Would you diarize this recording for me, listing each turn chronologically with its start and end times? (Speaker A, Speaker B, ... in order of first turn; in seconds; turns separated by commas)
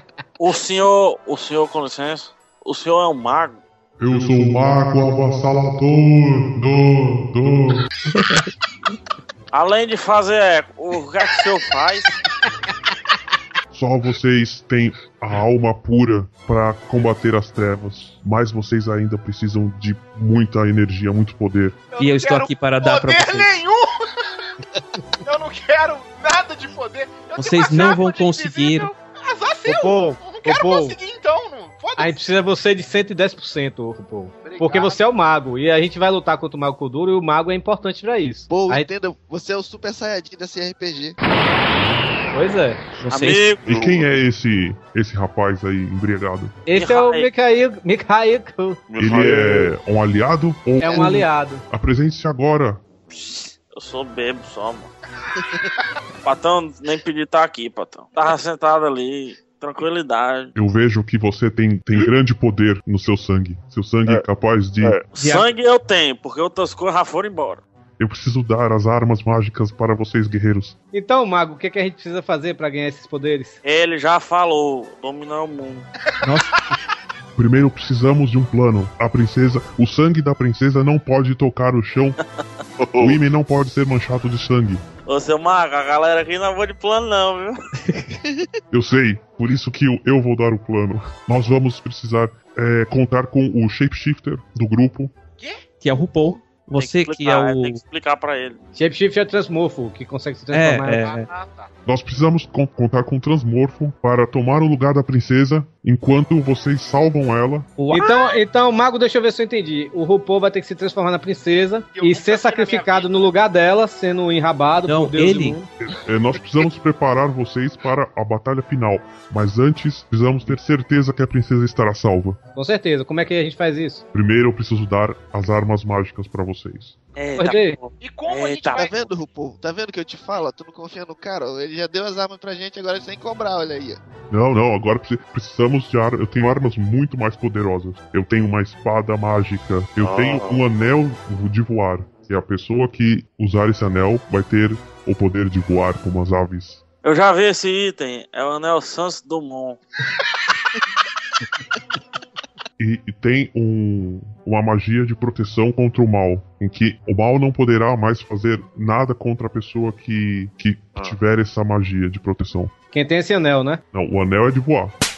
Speaker A: 0.4-3.6, Speaker B: 4.0-7.9, Speaker C: 8.1-8.5, Speaker A: 9.5-12.1, Speaker B: 13.7-21.9, Speaker D: 21.9-23.9, Speaker C: 22.0-23.6, Speaker D: 25.2-32.2, Speaker C: 27.4-28.9, Speaker E: 29.7-31.0, Speaker E: 32.0-38.9, Speaker D: 34.4-35.0, Speaker F: 38.5-41.2, Speaker E: 42.3-43.1, Speaker A: 43.1-43.9, Speaker C: 43.1-43.4, Speaker B: 43.6-46.6, Speaker E: 46.7-49.4, Speaker A: 46.7-47.3, Speaker A: 48.9-49.5, Speaker B: 49.0-52.8, Speaker E: 50.8-51.6, Speaker A: 53.1-54.9, Speaker A: 56.2-60.5, Speaker B: 60.5-65.0, Speaker A: 64.8-67.6, Speaker C: 65.2-65.5, Speaker B: 68.0-70.8, Speaker E: 70.9-73.6, Speaker A: 73.6-75.9, Speaker C: 76.2-76.5, Speaker B: 77.4-82.2, Speaker B: 82.9-84.8, Speaker A: 85.0-87.6, Speaker F: 88.2-88.5, Speaker B: 88.7-95.1, Speaker C: 95.8-97.8, Speaker A: 96.8-98.6, Speaker E: 98.8-101.0, Speaker C: 100.5-101.3, Speaker D: 101.0-101.7, Speaker B: 101.9-107.8, Speaker C: 107.8-108.1, Speaker E: 107.9-115.7, Speaker D: 111.9-113.2, Speaker C: 114.9-115.6, Speaker B: 115.8-122.4, Speaker E: 122.5-124.0, Speaker B: 124.1-127.0, Speaker A: 127.2-129.0, Speaker E: 127.4-127.8, Speaker D: 128.0-129.0, Speaker F: 128.7-134.0, Speaker B: 134.3-146.8, Speaker A: 147.0-149.8, Speaker B: 152.8-162.7, Speaker E: 162.9-163.8, Speaker B: 163.9-164.9